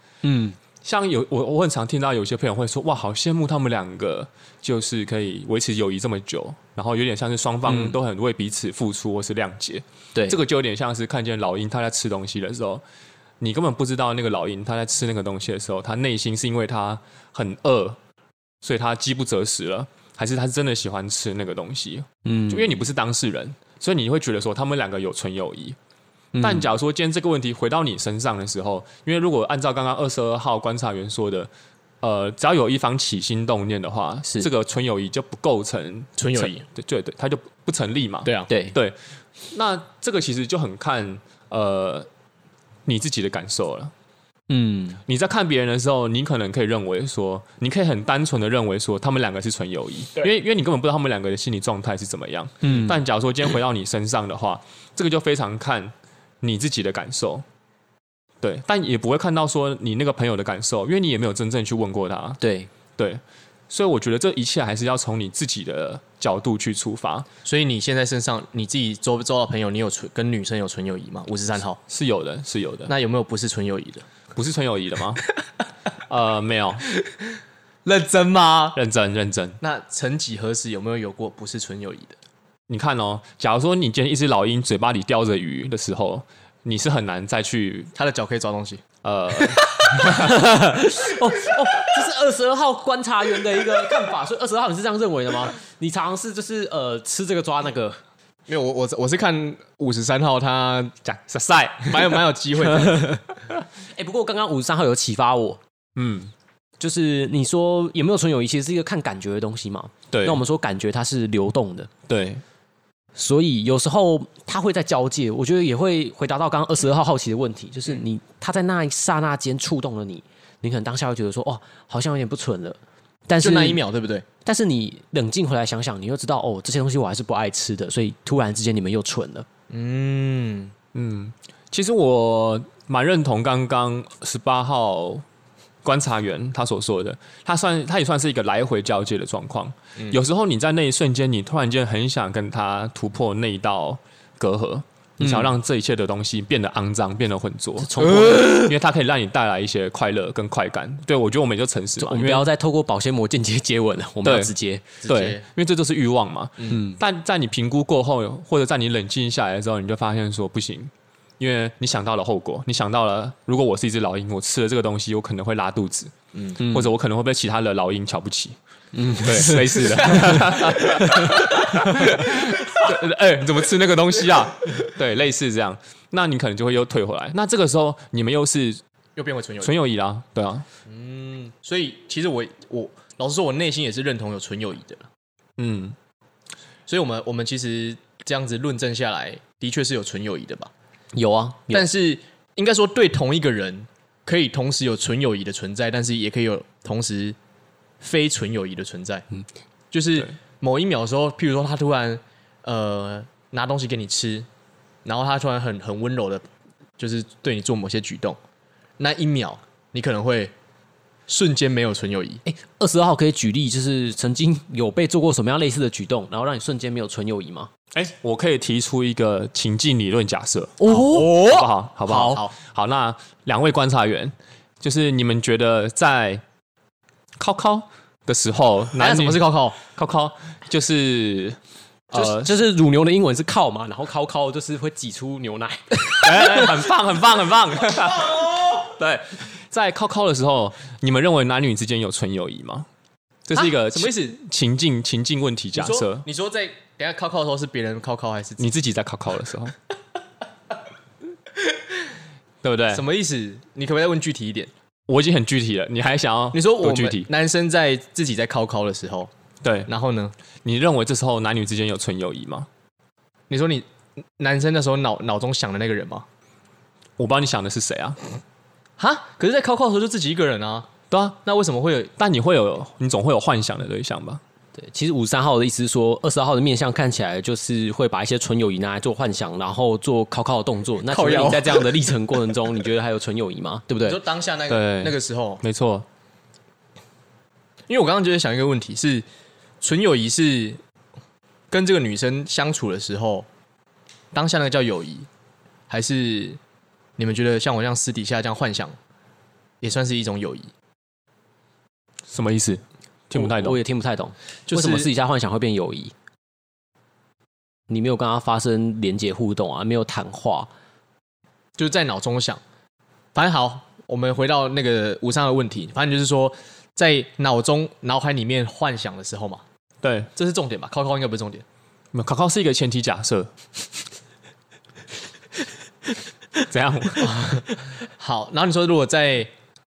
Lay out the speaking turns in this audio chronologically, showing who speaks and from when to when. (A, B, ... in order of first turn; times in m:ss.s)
0:00.2-0:00.6 A
0:00.8-0:12.8 B
0:07.7-0:08.0 A
0:13.4-0:18.0 B
0:18.6-0:25.8 B
0:22.2-0:22.8 A
0:26.3-0:26.7 A
0:26.4-0:31.5 B
0:32.0-0:39.0 B
0:36.2-0:36.6 C
0:38.2-0:38.5 C
0:38.5-0:38.8 A
0:39.5-0:42.1 B
0:42.9-0:43.9 B
0:44.5-0:45.0 A
0:45.1-0:57.4 B
0:52.6-0:53.0 A
0:58.4-1:02.4 B
1:02.4-1:02.7 A
1:03.0-1:07.3 B
1:07.4-1:11.8 C
1:11.9-1:12.9 B
1:12.9-1:14.0 C
1:14.4-1:15.2 B
1:16.1-1:16.8 B
1:17.8-1:18.8 C
1:18.7-1:19.6 B
1:19.6-1:22.2 C
1:22.7-1:27.9 B
1:28.0-1:28.8 C
1:29.0-1:30.4 B
1:29.9-1:38.0 A
1:38.5-1:41.0 C
1:41.0-1:42.2 B
1:41.9-1:43.2 C
1:42.8-1:43.2 A
1:43.9-1:45.6 A
1:46.0-1:46.3 B
1:46.8-1:51.9 A
1:50.1-1:50.4 B
1:52.1-1:52.4 B
1:53.2-2:03.8 A
2:03.4-2:04.2 C
2:04.4-2:09.5 A
2:09.7-2:10.7 C
2:10.9-2:15.2 B
2:15.8-2:32.5 B
2:25.2-2:25.5 A
2:27.8-2:28.8 A
2:32.0-2:35.0 A
2:34.2-2:34.5 B
2:35.0-2:35.4 C
2:35.0-2:48.6 B
2:36.7-2:37.0 A
2:46.3-2:46.6 C
2:46.6-2:46.9 A
2:48.9-2:52.1 A
2:49.2-2:58.8 B
2:59.2-2:59.8 C
2:59.6-3:00.7 B
3:00.9-3:05.1 C
3:05.6-3:06.0 B
3:06.9-3:10.7 C
3:11.1-3:11.9 A
3:11.7-3:17.4 C
3:18.0-3:19.3 C
3:19.9-3:24.5 C
3:25.1-3:26.4 C
3:27.0-3:28.4 C
3:29.0-3:30.5 C
3:31.3-3:32.4 C
3:32.4-3:37.7 A
3:37.9-3:46.4 B
3:40.8-3:41.4 A
3:40.8-3:42.5 C
3:47.4-3:51.6 B
3:49.0-3:49.8 C
3:52.1-3:52.5 B
3:52.1-3:56.7 A
3:56.2-4:02.9 B
3:56.3-3:56.7 C
3:57.9-3:58.8 C
4:03.5-4:06.3 B
4:03.5-4:04.4 C
4:05.8-4:08.7 C
4:08.6-4:09.8 B
4:12.6-4:13.0 B
4:12.9-4:14.7 C
4:15.1-4:17.3 B
4:16.5-4:19.3 C
4:19.6-4:19.9 B
4:19.9-4:20.3 C
4:20.6-4:22.7 B
4:23.5-4:23.9 C
4:24.4-4:26.3 C
4:27.2-4:28.2 B
4:29.0-4:30.9 C
4:31.1-4:31.4 B
4:31.4-4:32.1 C
4:32.2-4:34.4 B
4:34.8-4:44.2 A
4:41.1-4:42.1 C
4:44.0-4:45.6 C
4:44.7-4:46.1 B
4:47.9-4:49.2 C
4:49.8-4:50.8 C
4:51.7-4:53.5 C
4:54.3-4:55.3 C
4:55.9-4:56.6 C
4:57.2-4:59.0 C
4:59.8-5:00.7 C
5:02.3-5:03.8 B
5:03.3-5:06.1 A
5:04.7-5:05.1 C
5:07.9-5:10.7 A
5:11.8-5:12.6 C
5:13.4-5:19.6 C
5:20.0-5:20.3 B
5:20.3-5:21.6 C
5:22.1-5:23.5 B
5:26.6-5:27.6 B
5:28.2-5:29.5 C